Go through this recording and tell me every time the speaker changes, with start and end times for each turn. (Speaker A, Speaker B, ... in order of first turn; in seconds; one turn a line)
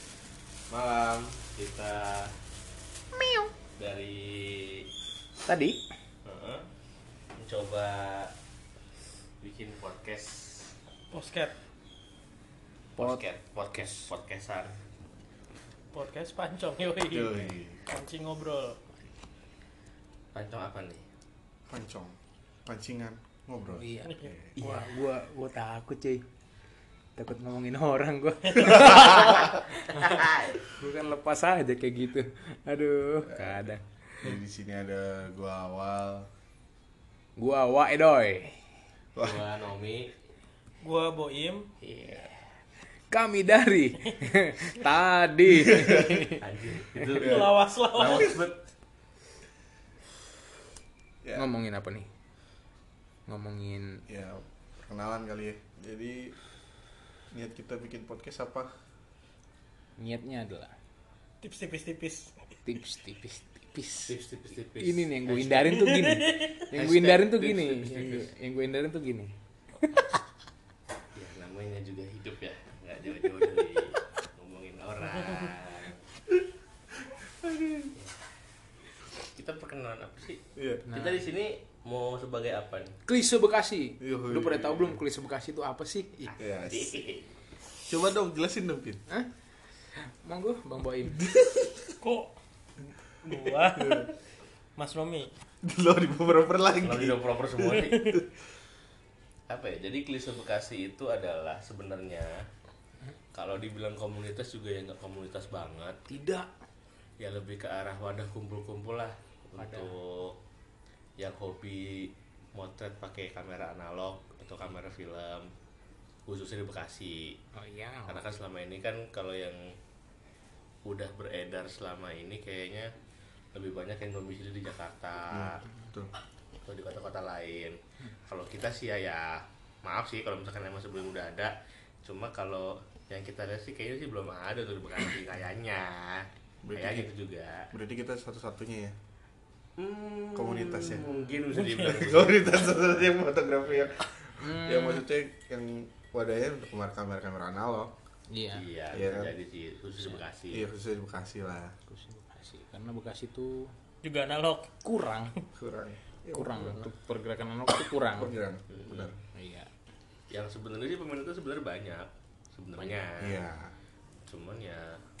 Speaker A: 0.7-2.3
Speaker B: 3.1-3.5
Speaker A: 3.8-4.9
Speaker B: 5.4-5.8
Speaker A: 6.2-6.7
Speaker A: 7.4-8.3
Speaker A: 9.4-10.7
Speaker C: 11.1-11.6
Speaker A: 13.0-14.8
Speaker C: 15.9-18.8
Speaker D: 17.1-17.8
Speaker A: 20.3-21.0
Speaker D: 21.7-24.5
Speaker B: 23.7-26.2
Speaker A: 24.6-24.9
Speaker B: 27.2-30.2
Speaker A: 29.9-30.6
Speaker B: 30.7-33.8
Speaker D: 33.2-33.7
Speaker D: 34.2-36.3
Speaker B: 37.4-38.6
Speaker D: 39.1-39.4
Speaker A: 39.2-40.1
Speaker C: 40.8-41.7
Speaker B: 41.8-42.4
Speaker B: 43.1-46.4
Speaker D: 45.7-46.0
Speaker A: 46.4-48.6
Speaker C: 47.0-48.4
Speaker D: 47.1-48.3
Speaker B: 51.3-52.1
Speaker B: 53.3-54.0
Speaker D: 54.1-56.4
Speaker D: 57.3-58.7
Speaker B: 60.0-60.7
Speaker C: 61.4-62.4
Speaker B: 62.6-69.3
Speaker A: 64.1-65.8
Speaker C: 65.7-66.6
Speaker A: 66.7-68.3
Speaker A: 71.1-76.0
Speaker D: 77.0-77.9
Speaker A: 79.3-82.9
Speaker D: 80.5-80.9
Speaker B: 80.9-81.2
Speaker B: 83.0-86.3
Speaker D: 84.0-85.0
Speaker A: 86.3-87.3
Speaker D: 86.4-86.9
Speaker D: 87.9-89.0
Speaker B: 89.9-91.3
Speaker D: 91.1-91.9
Speaker C: 92.0-92.3
Speaker C: 93.2-94.2
Speaker D: 93.3-94.1
Speaker C: 94.8-95.3
Speaker D: 95.6-98.2
Speaker A: 96.8-98.0
Speaker A: 99.5-102.3
Speaker A: 103.3-106.0
Speaker B: 106.1-106.5
Speaker A: 107.2-110.3
Speaker B: 109.6-109.9
Speaker A: 111.2-115.5
Speaker A: 116.3-117.4
Speaker B: 117.5-118.2
Speaker A: 118.1-119.7
Speaker A: 120.8-122.9
Speaker A: 123.5-125.6
Speaker D: 125.3-126.1
Speaker A: 126.6-137.7
Speaker D: 136.6-137.1
Speaker D: 137.7-138.9
Speaker A: 139.8-143.0
Speaker D: 140.3-141.2
Speaker C: 141.5-142.0
Speaker D: 141.8-147.9
Speaker A: 143.6-144.0
Speaker B: 144.4-145.0
Speaker B: 148.3-148.6
Speaker A: 148.5-150.7
Speaker D: 148.9-149.3
Speaker D: 150.5-151.7
Speaker B: 151.9-153.7
Speaker C: 154.0-154.7
Speaker B: 154.8-155.3
Speaker D: 155.5-156.9
Speaker B: 156.3-158.3
Speaker D: 158.1-159.1
Speaker A: 158.7-159.1
Speaker B: 159.3-159.7
Speaker A: 160.3-163.4
Speaker D: 163.2-163.7
Speaker A: 164.3-165.0